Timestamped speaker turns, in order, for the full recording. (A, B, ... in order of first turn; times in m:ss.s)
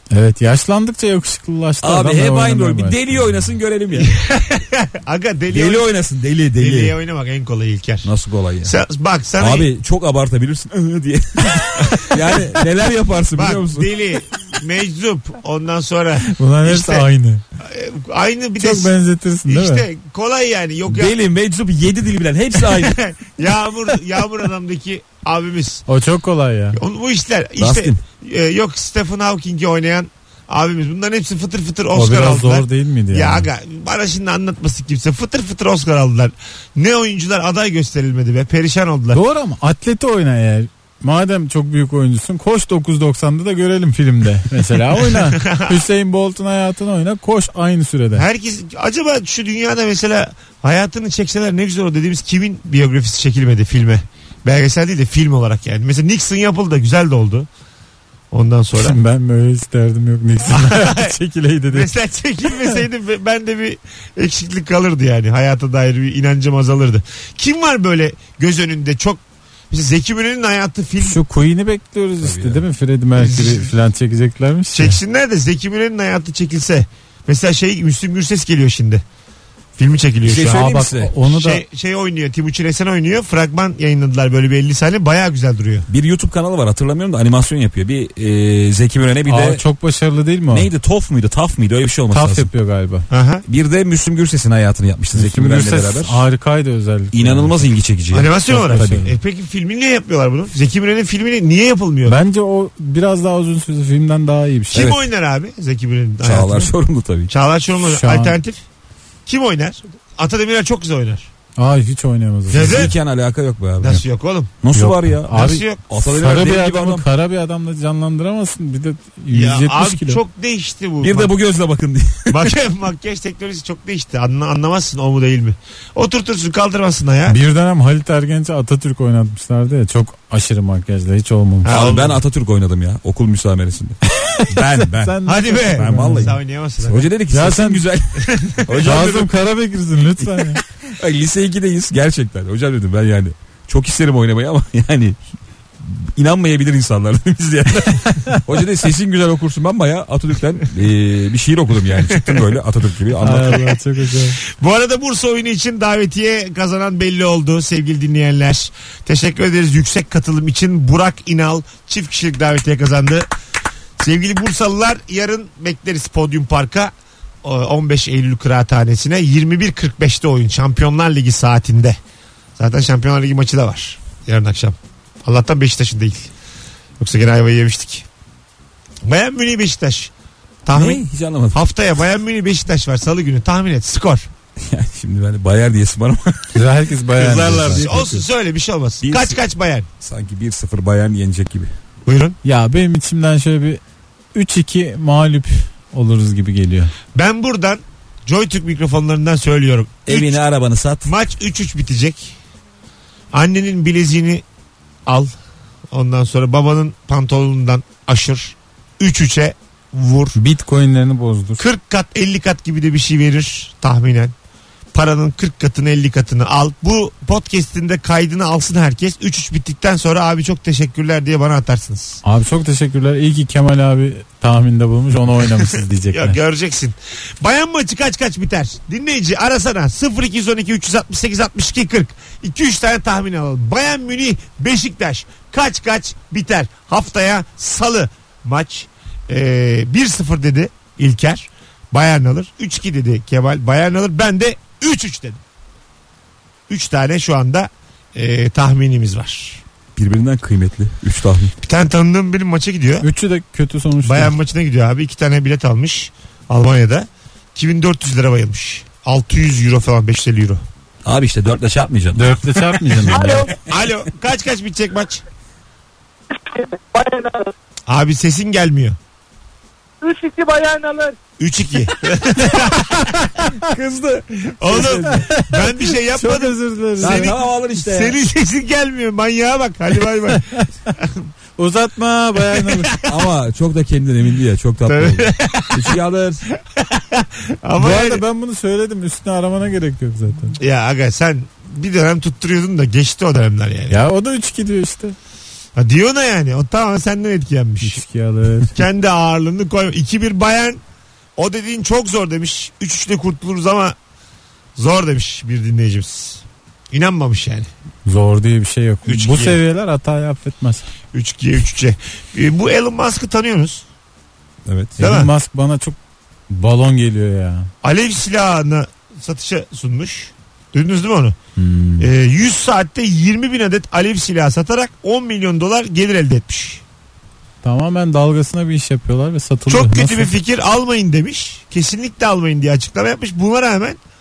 0:00.1-0:03.5 A
0:01.8-0:04.1 B
0:03.9-0:05.9 C
0:05.5-0:07.0 B
0:06.6-0:08.1 C
0:08.0-0:08.8 B
0:08.6-0:09.7 C
0:09.4-0:14.0 B
0:13.4-0:17.1 C
0:16.2-0:17.4 A
0:17.6-0:18.9 C
0:18.6-0:19.9 A
0:19.5-0:21.2 C
0:20.9-0:23.0 B
0:22.6-0:25.8 C
0:25.9-0:26.8 A
0:26.8-0:39.2 C
0:27.6-0:28.0 B
0:31.9-0:33.5 A
0:39.1-0:48.3 A
0:45.0-0:45.8 C
0:48.2-0:57.5 C
0:58.3-0:59.0 C
0:58.8-1:01.9 A
1:00.5-1:01.2 C
1:01.7-1:11.2 C
1:11.0-1:15.0 A
1:12.2-1:12.6 B
1:13.2-1:13.7 C
1:14.7-1:19.0 C
1:19.8-1:20.7 C
1:20.2-1:21.1 B
1:20.5-1:21.6 A
1:21.2-1:25.9 C
1:25.9-1:29.6 B
1:29.3-1:30.7 A
1:30.5-1:32.5 B
1:32.1-1:33.1 A
1:33.1-1:33.4 C
1:33.5-1:36.2 B
1:35.1-1:37.7 A
1:37.1-1:38.9 B
1:38.1-1:42.2 C
1:38.5-1:39.1 A
1:42.1-1:44.9 A
1:44.7-1:46.7 C
1:44.7-1:45.0 B
1:46.2-1:47.3 B
1:47.3-1:48.6 C
1:47.8-1:48.4 A
1:49.3-1:51.3 C
1:51.6-1:52.9 A
1:52.5-1:53.0 C
1:52.5-1:54.0 B
1:53.8-1:54.5 C
1:54.6-1:57.1 B
1:54.7-2:00.2 A
1:55.3-1:55.8 C
1:59.3-2:01.3 C
2:01.0-2:02.5 B
2:02.3-2:07.4 C
2:07.3-2:11.7 A
2:11.6-2:12.2 C
2:11.7-2:19.3 B
2:14.4-2:16.3 A
2:15.3-2:17.1 C
2:17.3-2:17.8 A
2:18.2-2:18.6 C
2:18.8-2:20.6 A
2:20.2-2:25.2 B
2:25.8-2:33.7 B
2:32.0-2:32.4 C
2:33.2-2:34.4 A
2:33.4-2:33.7 C
2:34.4-2:43.3 C
2:44.0-2:52.0 C
2:52.6-2:56.3 C
2:57.0-2:58.1 C
2:59.0-3:00.1 C
3:00.7-3:04.3 C
3:00.7-3:01.6 B
3:04.6-3:06.6 B
3:06.5-3:08.2 A
3:07.2-3:08.1 B
3:07.3-3:09.9 C
3:09.0-3:09.4 B
3:10.0-3:11.7 B
3:12.1-3:12.4 C
3:12.4-3:13.8 A
3:14.4-3:16.9 A
3:17.1-3:20.4 C
3:20.1-3:21.1 B
3:21.0-3:22.4 C
3:23.3-3:24.4 C
3:25.1-3:25.3 C
3:25.9-3:30.4 C
3:30.4-3:31.6 A
3:31.6-3:34.3 C
3:34.9-3:42.2 C
3:42.2-3:46.4 A
3:45.5-4:05.4 C
4:06.7-4:09.6 C
4:10.0-4:11.5 B
4:11.6-4:13.1 C
4:13.0-4:14.4 A
4:14.0-4:20.6 C
4:21.0-4:22.4 B
4:22.2-4:23.5 A
4:23.1-4:23.5 D
4:23.6-4:25.2 C
4:26.5-4:27.5 D
4:27.9-4:29.0 C
4:30.0-4:31.2 D
4:31.4-4:33.1 C
4:33.6-4:35.2 B
4:34.6-4:41.3 C
4:35.0-4:37.3 A
4:37.0-4:38.2 B
4:40.5-4:40.9 A
4:41.6-4:43.0 A
4:42.5-4:43.0 C
4:43.0-4:46.4 B
4:44.8-4:46.0 C
4:46.6-4:48.2 C
4:47.8-4:50.6 A
4:50.6-4:54.0 C
4:53.9-4:55.2 A
4:55.8-4:58.0 C
4:57.8-4:58.8 A
4:58.7-5:00.8 C
5:01.4-5:04.0 C
5:04.8-5:07.7 C
5:08.1-5:10.9 A
5:09.0-5:09.6 C
5:11.1-5:13.8 C
5:14.7-5:15.0 B
5:15.0-5:16.0 A
5:15.0-5:15.3 C
5:16.5-5:17.7 A
5:17.8-5:21.4 C
5:21.6-5:22.1 A
5:22.0-5:26.8 C
5:27.6-5:30.3 A
5:29.7-5:34.0 C